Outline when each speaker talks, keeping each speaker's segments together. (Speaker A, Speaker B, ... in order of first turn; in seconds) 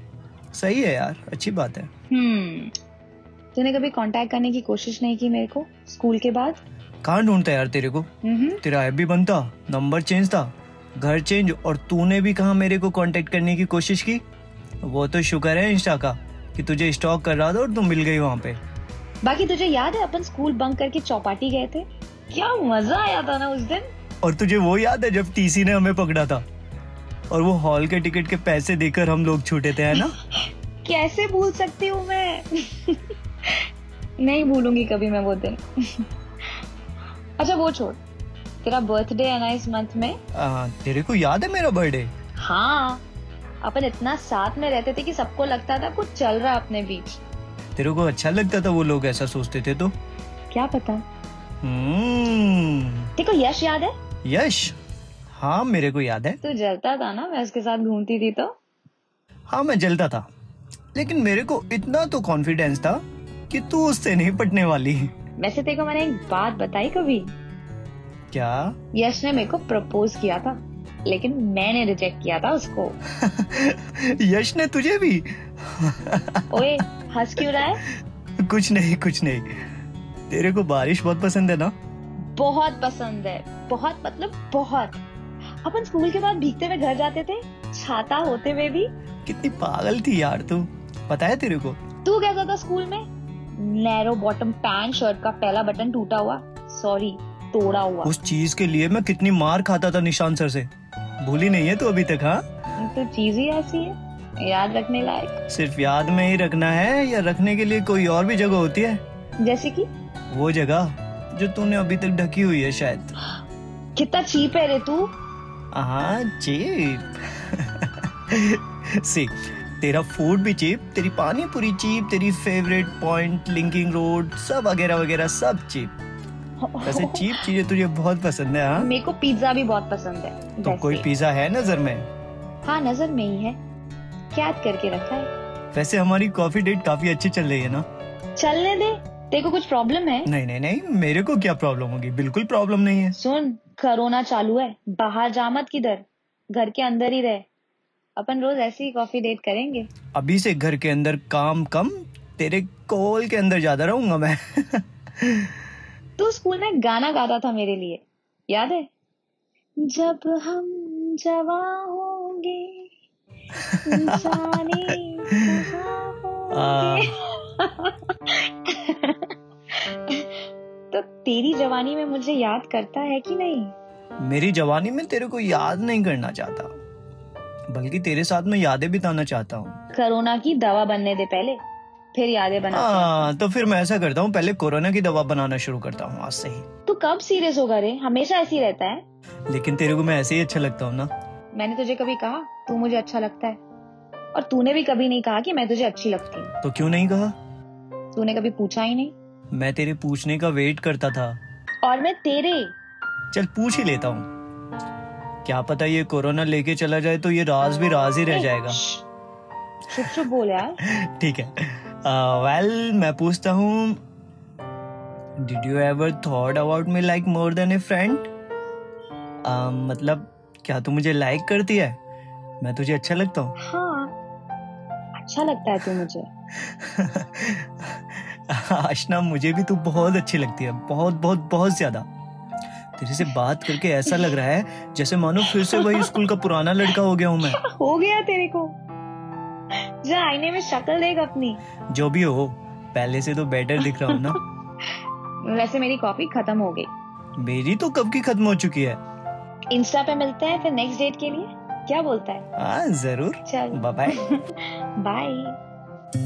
Speaker A: 0.5-1.9, 7.0-8.1, 8.6-14.2, 14.8-18.6, 24.2-26.4, 27.3-30.1, 40.4-42.1, 47.8-49.9, 51.6-53.1, 54.2-54.8, 55.3-56.4, 59.5-60.3, 61.0-65.1, 68.3-68.7, 73.2-76.8, 78.4-79.5, 80.3-81.7, 89.3-91.8, 98.0-100.7, 101.2-102.4, 105.5-109.0, 110.3-113.2, 115.7-125.9, 126.8-128.9, 130.6-132.1, 135.7-137.9, 140.2-143.2, 150.2-155.5, 163.7-164.8, 166.5-167.2, 174.2-176.7, 177.7-179.8, 182.7-186.7, 189.5-191.1, 196.6-197.3, 199.5-201.4, 203.3-204.3, 205.4-208.8, 210.8-214.0, 215.4-218.3, 219.4-222.0, 222.6-223.6, 226.6-232.1, 233.0-237.6, 241.9-244.4, 247.4-249.0, 252.6-254.2
Speaker B: 2.1-2.7, 3.5-6.6, 8.2-8.6, 19.2-23.9, 29.9-33.6, 34.2-36.1, 37.4-38.0, 38.6-40.2, 42.4-43.0, 43.6-47.2, 50.5-51.0, 53.2-53.9, 56.4-58.5, 65.4-67.3, 68.9-73.0, 76.5-77.8, 82.2-85.0, 85.6-88.9, 92.0-93.0, 93.6-98.1, 102.8-105.4, 109.4-109.9, 114.0-115.1, 126.6-127.4, 128.8-131.1, 132.6-133.6, 134.3-135.3, 138.4-140.3, 143.2-147.5, 148.2-149.9, 156.2-158.9, 159.8-162.9, 163.8-169.3, 169.9-170.4, 170.9-173.7, 179.9-181.6, 182.1-183.3, 186.9-189.0, 191.6-193.6, 194.3-196.5, 198.1-199.2, 201.8-202.7, 208.3-209.0, 209.9-210.8, 223.6-224.1, 225.2-226.3, 234.1-234.4, 235.4-236.2, 237.5-238.8, 240.0-241.6, 243.8-244.3, 245.4-246.9, 249.7-252.5, 253.5-255.6